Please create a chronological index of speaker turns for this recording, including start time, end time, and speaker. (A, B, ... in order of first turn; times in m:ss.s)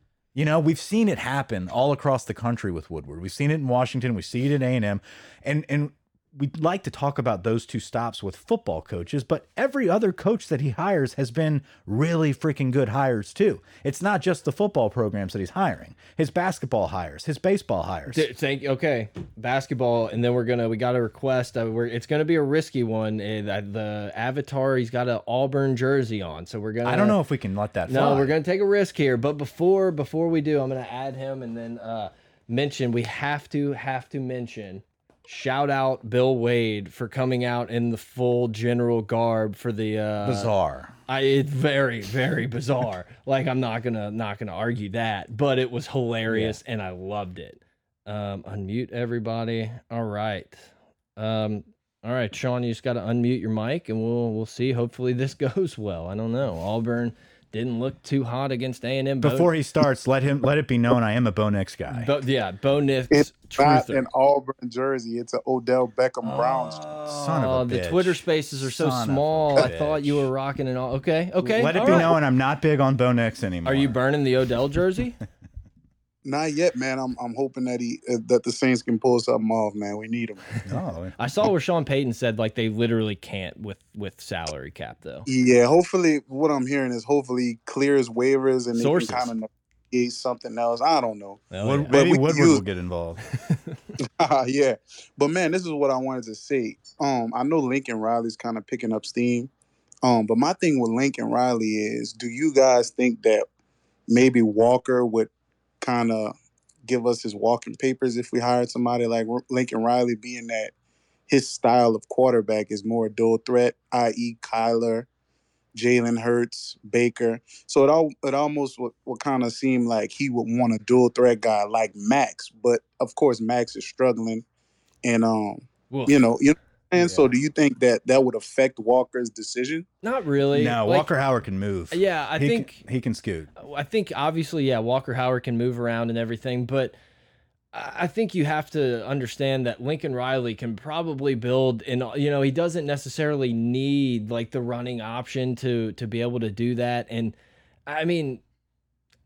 0:00.3-0:18.2 A
0:18.1-0:27.2 B
0:26.8-0:28.3 A
0:27.9-0:40.5 B
0:40.2-0:40.9 A
0:41.1-0:59.5 B
0:46.3-0:46.6 A
0:59.2-1:02.1 A
1:01.9-1:04.0 B
1:03.1-1:06.9 C
1:06.2-1:12.2 B
1:07.0-1:10.3 A
1:11.4-1:14.0 A
1:13.6-1:15.2 B
1:16.2-1:20.5 C
1:20.6-1:21.2 A
1:21.2-1:25.3 B
1:25.3-1:32.6 C
1:28.8-1:29.3 B
1:31.5-1:31.9 B
1:31.6-1:33.2 A
1:33.4-1:33.8 B
1:34.2-1:39.5 C
1:40.0-1:43.4 C
1:44.1-1:45.3 C
1:45.8-1:46.3 C
1:46.8-1:50.7 C
1:51.3-1:55.1 C
1:55.7-2:04.4 C
2:05.0-2:09.8 C
2:05.9-2:06.2 B
2:07.0-2:07.3 A
2:10.0-2:11.1 B
2:10.5-2:13.5 A
2:11.9-2:12.8 B
2:13.6-2:16.9 B
2:17.7-2:27.3 B
2:27.9-2:28.4 B